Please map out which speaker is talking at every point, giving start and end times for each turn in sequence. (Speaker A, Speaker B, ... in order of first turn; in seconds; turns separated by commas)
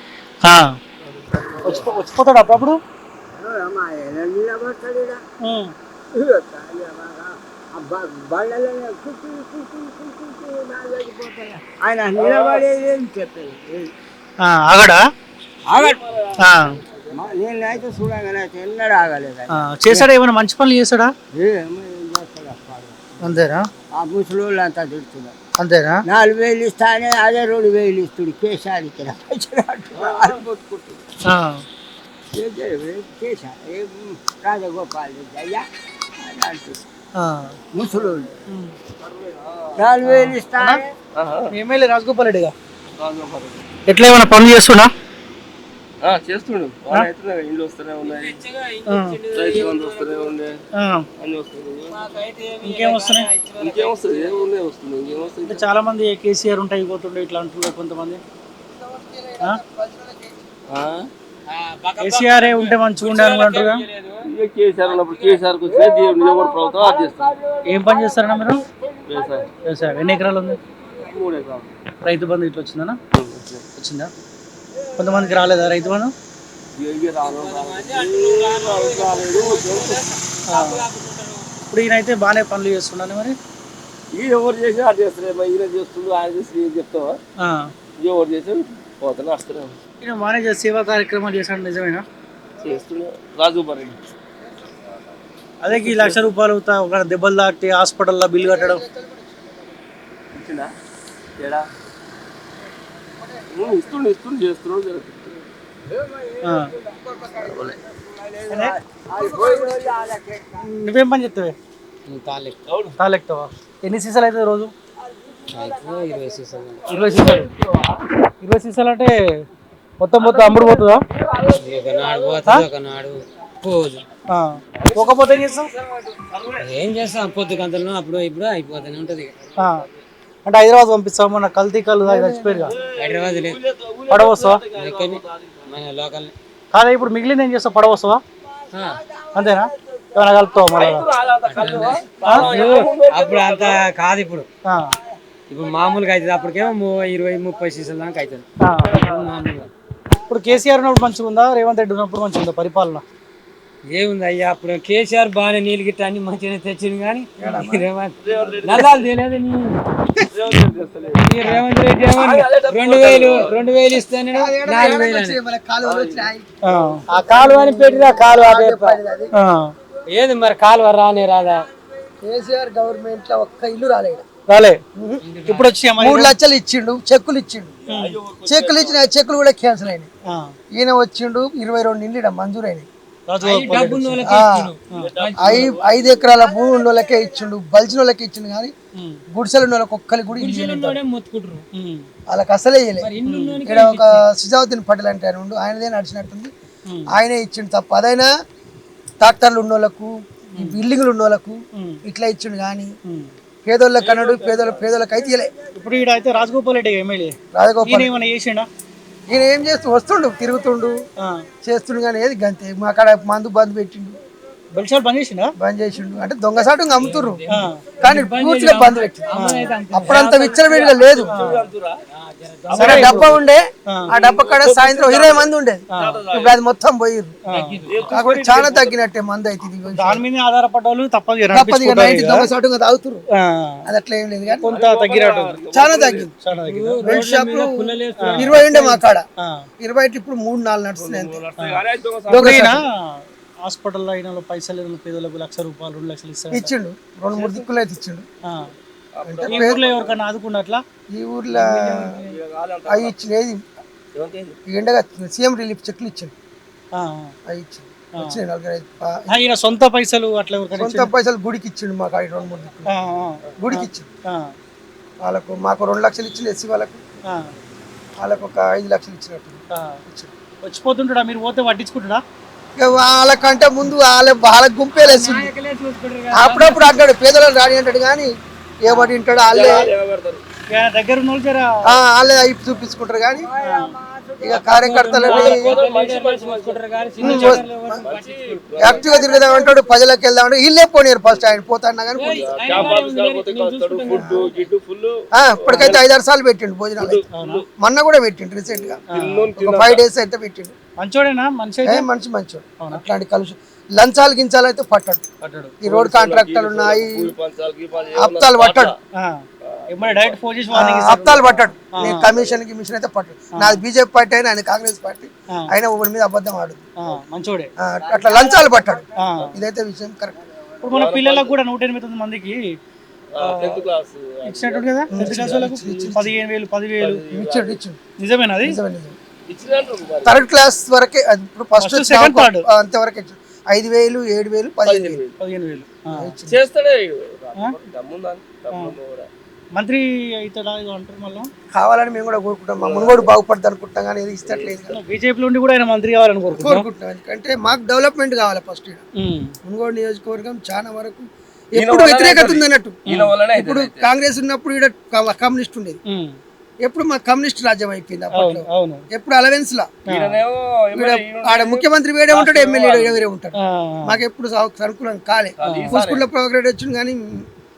Speaker A: 0.4-0.8, Speaker A: 1.6-2.8, Speaker B: 3.3-5.2, Speaker A: 5.4-5.7, Speaker B: 6.1-13.9, Speaker C: 12.2-12.7, Speaker A: 14.4-15.0, Speaker B: 15.7-16.0, Speaker C: 15.7-17.9, Speaker A: 16.4-16.8, Speaker B: 17.1-19.4, Speaker A: 19.5-21.1, Speaker B: 21.3-23.0, Speaker A: 23.2-23.7, Speaker B: 23.9-25.3, Speaker A: 25.6-26.0, Speaker B: 26.1-30.4, Speaker C: 29.9-31.0, Speaker A: 31.2-31.6, Speaker B: 32.3-35.6, Speaker B: 36.2-36.8, Speaker A: 37.2-37.5, Speaker B: 37.7-38.3, Speaker A: 38.5-38.8, Speaker C: 39.0-39.8, Speaker B: 39.8-40.9, Speaker A: 40.0-40.8, Speaker C: 41.2-41.5, Speaker A: 41.5-42.5, Speaker C: 42.9-43.7, Speaker A: 43.9-44.9, Speaker C: 46.0-48.4, Speaker D: 48.0-50.3, Speaker A: 48.9-49.2, Speaker C: 49.3-50.6, Speaker A: 50.8-51.0, Speaker C: 51.2-52.1, Speaker D: 51.9-54.5, Speaker A: 52.6-53.3, Speaker C: 53.6-55.7, Speaker A: 55.5-58.2, Speaker E: 58.7-60.5, Speaker C: 60.7-61.1, Speaker D: 61.5-64.3, Speaker A: 62.0-63.8, Speaker C: 64.3-67.3, Speaker D: 64.8-65.5, Speaker B: 65.7-69.1, Speaker A: 67.6-68.6, Speaker C: 69.1-69.5, Speaker A: 69.6-70.6, Speaker C: 70.9-71.7, Speaker A: 72.0-73.0, Speaker C: 73.1-73.6, Speaker A: 73.8-74.1, Speaker A: 75.0-76.1, Speaker C: 76.7-80.0, Speaker D: 77.2-81.5, Speaker A: 80.5-80.9, Speaker A: 81.7-83.4, Speaker C: 84.1-87.2, Speaker A: 87.4-87.7, Speaker C: 88.0-89.8, Speaker A: 90.0-92.0, Speaker C: 92.6-94.0, Speaker E: 94.5-95.1, Speaker A: 95.6-98.8, Speaker C: 95.7-96.3, Speaker E: 98.4-99.8, Speaker C: 100.3-100.7, Speaker C: 101.4-101.7, Speaker E: 103.0-103.9, Speaker C: 103.5-105.5, Speaker B: 105.9-106.8, Speaker A: 106.4-106.7, Speaker C: 107.3-107.8, Speaker B: 107.5-110.5, Speaker A: 108.5-108.8, Speaker E: 109.2-109.8, Speaker A: 110.6-111.5, Speaker D: 112.1-112.6, Speaker C: 112.7-113.0, Speaker A: 113.0-114.7, Speaker D: 115.5-116.9, Speaker A: 116.9-117.5, Speaker C: 116.9-117.9, Speaker A: 118.4-119.2, Speaker A: 120.0-121.0, Speaker C: 120.2-122.3, Speaker D: 121.5-124.0, Speaker A: 124.3-125.7, Speaker C: 124.8-126.6, Speaker D: 126.6-129.3, Speaker A: 129.6-129.8, Speaker A: 130.4-132.7, Speaker E: 132.0-132.7, Speaker C: 132.7-135.7, Speaker D: 132.9-133.6, Speaker A: 134.1-134.6, Speaker D: 134.7-136.3, Speaker A: 136.7-138.2, Speaker D: 138.7-139.0, Speaker A: 139.3-141.1, Speaker C: 140.7-143.8, Speaker D: 141.5-144.5, Speaker A: 141.7-142.5, Speaker A: 144.7-144.9, Speaker D: 145.5-149.7, Speaker A: 148.6-148.9, Speaker C: 148.9-149.2, Speaker A: 150.3-153.0, Speaker D: 153.9-159.8, Speaker E: 157.4-158.8, Speaker C: 158.2-159.1, Speaker C: 160.2-161.3, Speaker D: 161.2-165.4, Speaker C: 162.1-163.6, Speaker E: 164.3-166.5, Speaker C: 165.8-166.7, Speaker A: 166.6-167.0, Speaker D: 167.1-169.0, Speaker E: 167.1-169.3, Speaker A: 169.3-169.7, Speaker D: 170.1-171.6, Speaker E: 172.2-174.2, Speaker A: 174.5-174.8, Speaker E: 174.9-175.2, Speaker D: 175.2-175.8, Speaker A: 175.5-176.3, Speaker E: 176.0-177.7, Speaker C: 177.8-179.1, Speaker A: 177.9-178.2, Speaker E: 178.4-180.1, Speaker A: 180.3-180.5, Speaker E: 180.7-182.9, Speaker A: 183.3-184.4, Speaker D: 183.4-185.7, Speaker E: 184.2-184.7, Speaker C: 184.9-186.4, Speaker E: 185.4-188.7, Speaker E: 189.3-191.0, Speaker D: 190.3-191.6, Speaker A: 191.7-192.1, Speaker E: 192.3-193.1, Speaker D: 193.0-194.2, Speaker A: 193.2-193.6, Speaker E: 193.6-196.5, Speaker E: 197.1-198.3, Speaker E: 199.2-202.9, Speaker A: 201.7-202.0, Speaker A: 203.0-203.3, Speaker E: 203.6-205.5, Speaker C: 204.0-205.0, Speaker A: 205.7-208.7, Speaker E: 207.5-208.1, Speaker E: 209.3-211.0, Speaker A: 211.2-211.4, Speaker E: 211.6-214.2, Speaker A: 214.7-215.5, Speaker E: 215.6-217.4, Speaker D: 216.9-220.7, Speaker A: 217.5-217.8, Speaker E: 218.0-219.3, Speaker A: 219.3-219.7, Speaker E: 219.9-221.3, Speaker C: 220.0-222.0, Speaker A: 221.3-221.7, Speaker D: 222.1-223.4, Speaker C: 222.7-223.4, Speaker E: 222.8-227.4, Speaker A: 222.8-223.4, Speaker C: 224.1-226.6, Speaker A: 225.9-226.2, Speaker A: 227.4-227.8, Speaker D: 227.5-228.1, Speaker C: 227.9-229.0, Speaker E: 228.1-230.2, Speaker A: 229.9-232.5, Speaker E: 231.5-233.2, Speaker A: 233.3-233.8, Speaker E: 233.8-234.7, Speaker A: 234.6-235.6, Speaker C: 234.6-236.3, Speaker E: 235.7-236.3, Speaker A: 236.4-237.1, Speaker D: 236.6-239.0, Speaker E: 237.0-239.2, Speaker A: 238.2-238.6, Speaker A: 239.4-239.7, Speaker E: 239.8-241.4, Speaker C: 241.0-242.8, Speaker A: 241.6-246.7, Speaker E: 242.3-242.8, Speaker E: 246.5-248.2, Speaker C: 247.3-247.7, Speaker A: 248.4-248.7, Speaker C: 249.1-250.2, Speaker E: 249.2-249.8, Speaker A: 249.5-250.8, Speaker E: 251.1-252.1, Speaker A: 251.5-252.2, Speaker C: 252.1-253.2, Speaker E: 252.9-253.6, Speaker C: 254.2-254.6, Speaker E: 254.7-256.3, Speaker A: 256.9-257.3, Speaker E: 257.5-259.3, Speaker A: 259.3-261.1, Speaker E: 260.8-262.9, Speaker A: 262.9-264.5, Speaker E: 263.6-264.1, Speaker E: 265.2-267.0, Speaker A: 267.3-267.5, Speaker E: 268.2-270.3, Speaker A: 269.7-270.0, Speaker A: 270.6-272.2, Speaker E: 272.8-275.5, Speaker D: 275.0-277.0, Speaker E: 276.3-279.9, Speaker C: 279.4-280.4, Speaker A: 280.7-281.9, Speaker E: 281.9-283.5, Speaker B: 283.4-284.6, Speaker A: 283.6-284.0, Speaker E: 284.4-285.8, Speaker D: 284.5-289.5, Speaker C: 285.1-289.5, Speaker E: 287.2-288.0, Speaker E: 288.8-292.9, Speaker B: 289.3-289.8, Speaker C: 291.3-291.6, Speaker D: 292.1-294.7, Speaker C: 292.2-296.0, Speaker E: 294.1-294.4, Speaker E: 295.3-297.2, Speaker C: 297.0-297.7, Speaker A: 297.3-297.6, Speaker E: 297.8-299.0, Speaker C: 298.7-300.0, Speaker A: 299.1-299.5, Speaker E: 299.6-300.7, Speaker A: 301.0-302.1, Speaker E: 301.9-305.2, Speaker A: 305.4-305.8, Speaker E: 305.8-307.3, Speaker C: 305.9-308.9, Speaker E: 308.1-308.9, Speaker A: 309.2-312.3, Speaker C: 309.6-310.4, Speaker E: 310.7-316.9, Speaker C: 312.3-312.6, Speaker A: 313.6-313.8, Speaker A: 317.0-317.7, Speaker E: 317.8-320.4, Speaker D: 318.3-318.6, Speaker A: 319.2-319.5, Speaker A: 320.8-322.6, Speaker C: 320.9-321.5, Speaker C: 323.3-326.1, Speaker A: 324.5-327.2, Speaker E: 325.1-326.4, Speaker C: 327.0-327.8, Speaker E: 327.3-328.0, Speaker A: 328.2-328.8, Speaker E: 328.6-329.2, Speaker C: 329.5-330.4, Speaker E: 330.2-335.2, Speaker A: 331.8-332.6, Speaker C: 334.8-335.4, Speaker A: 335.4-336.3, Speaker E: 336.1-336.6, Speaker C: 336.5-339.3, Speaker A: 339.8-341.5, Speaker E: 341.7-345.0, Speaker C: 342.8-343.3, Speaker C: 344.4-344.9, Speaker A: 344.9-346.9, Speaker E: 346.5-349.0, Speaker A: 349.2-349.6, Speaker E: 349.6-356.0, Speaker C: 351.8-354.1, Speaker A: 356.1-356.4, Speaker E: 356.8-359.9, Speaker A: 358.3-359.0, Speaker A: 360.1-360.4, Speaker C: 360.1-363.3, Speaker E: 360.9-367.4, Speaker A: 363.6-364.2, Speaker C: 365.6-366.2, Speaker A: 365.6-366.0